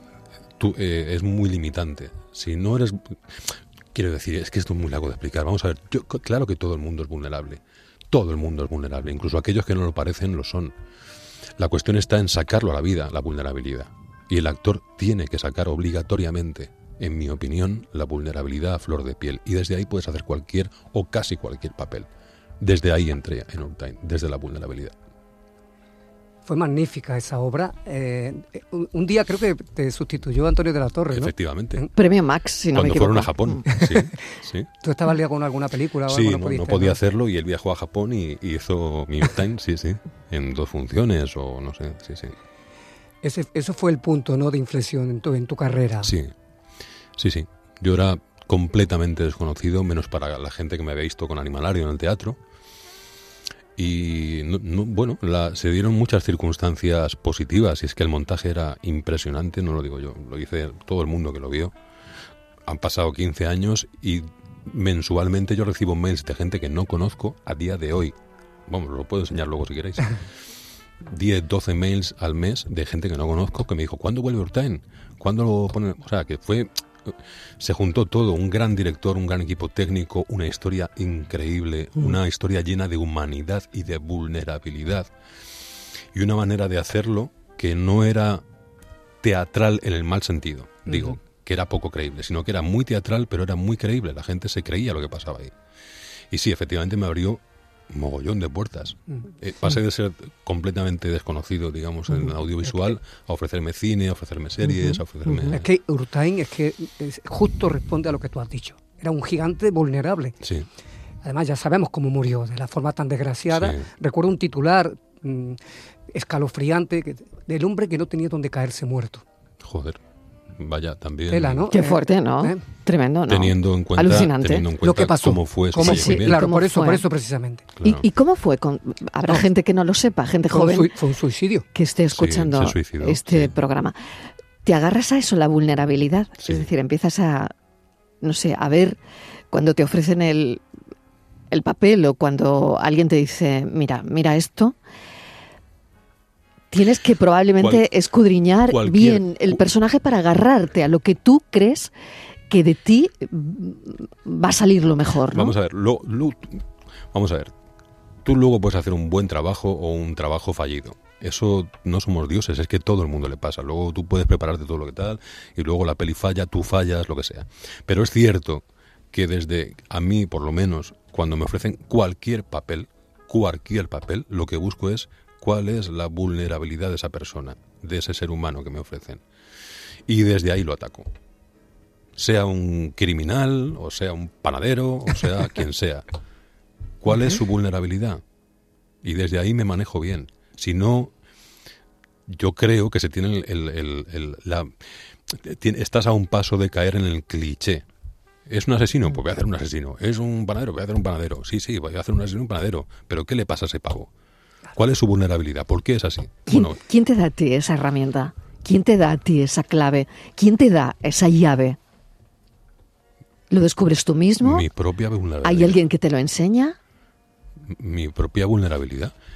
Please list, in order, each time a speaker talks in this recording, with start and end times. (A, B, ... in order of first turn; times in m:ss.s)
0:00.6-0:10.7 A
0:11.6-0:22.1 A
0:22.6-0:25.0 A
0:26.5-0:31.9 B
0:31.1-0:31.8 A
0:32.0-0:33.6 C
0:32.7-0:34.7 A
0:33.7-0:34.1 B
0:34.8-0:37.0 B
0:36.1-0:42.4 A
0:43.2-0:46.1 B
0:46.0-0:46.3 A
0:47.2-0:52.4 A
0:53.8-1:01.7 A
1:02.7-1:08.2 A
1:08.7-1:10.2 A
1:11.0-1:25.1 A
1:26.1-1:28.4 A
1:29.2-1:35.5 A
1:36.3-1:45.7 A
1:44.8-1:45.6 C
1:45.5-1:50.4 B
1:50.4-1:50.7 A
1:51.2-1:55.6 B
1:53.5-1:53.8 A
1:56.1-1:59.2 B
1:59.6-2:00.0 A
2:00.5-2:01.7 A
2:01.3-2:02.6 B
2:01.7-2:04.7 C
2:03.3-2:06.4 A
2:04.8-2:07.7 B
2:05.8-2:07.0 C
2:07.8-2:08.0 A
2:07.8-2:10.9 C
2:10.5-2:11.6 B
2:11.7-2:14.0 C
2:12.1-2:13.5 A
2:14.6-2:17.5 C
2:18.2-2:19.0 C
2:19.5-2:20.6 C
2:21.5-2:24.8 C
2:26.7-2:31.9 C
2:27.6-2:27.9 A
2:28.7-2:29.6 A
2:32.5-2:35.5 C
2:35.3-2:37.5 A
2:38.2-2:59.2 A
3:00.1-3:01.1 A
3:02.2-3:06.0 A
3:07.0-3:08.2 A
3:09.0-3:11.1 A
3:12.3-3:14.7 A
3:15.3-3:17.8 A
3:18.5-3:24.1 A
3:24.8-3:26.8 A
3:26.5-3:31.8 C
3:33.5-3:34.6 C
3:34.4-3:35.8 A
3:35.4-3:36.8 C
3:37.6-3:39.1 A